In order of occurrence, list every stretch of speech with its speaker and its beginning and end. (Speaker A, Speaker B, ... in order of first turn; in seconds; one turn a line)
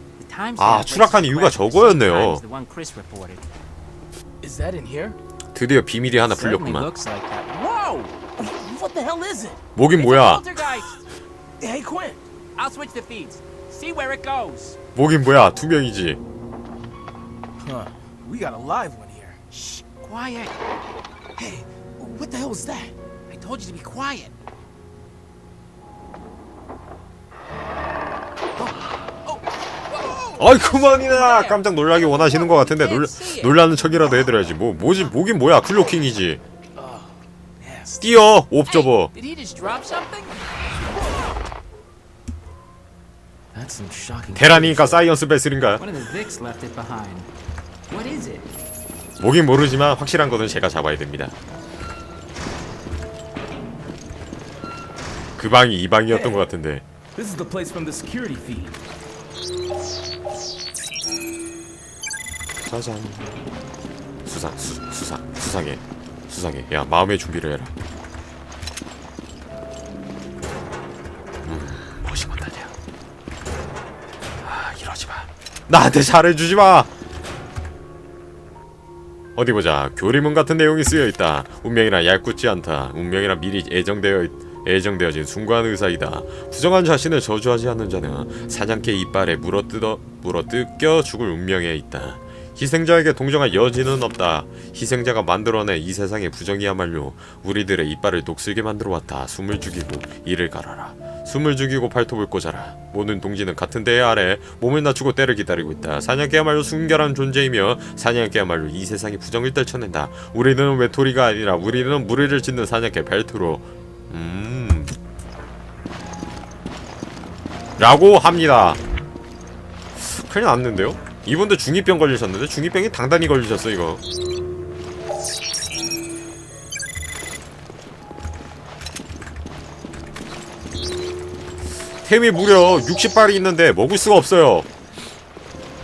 Speaker A: 0.2-3.5
Speaker B: 0.6-2.4
Speaker C: 4.4-5.2
Speaker B: 5.5-6.9
Speaker A: 6.2-8.2
Speaker C: 8.4-9.6
Speaker B: 9.7-10.4
Speaker A: 10.0-11.0
Speaker C: 11.6-12.2
Speaker A: 12.6-14.8
Speaker B: 14.9-16.2
Speaker C: 17.6-19.6
Speaker A: 19.6-20.6
Speaker C: 21.4-22.9
Speaker A: 23.3-24.3
Speaker C: 28.6-28.9
Speaker A: 29.2-33.5
Speaker B: 30.4-36.4
Speaker C: 36.8-38.1
Speaker B: 38.0-39.1
Speaker A: 38.6-40.6
Speaker C: 43.5-45.1
Speaker B: 44.3-45.8
Speaker A: 45.8-47.3
Speaker A: 47.9-48.5
Speaker B: 49.2-51.3
Speaker B: 55.4-56.8
Speaker C: 57.1-58.8
Speaker B: 62.6-63.4
Speaker B: 64.2-67.7
Speaker B: 71.4-72.7
Speaker B: 74.4-76.9
Speaker B: 79.3-114.9
Speaker B: 117.8-118.8
Speaker B: 120.0-124.0
Speaker B: 132.0-134.7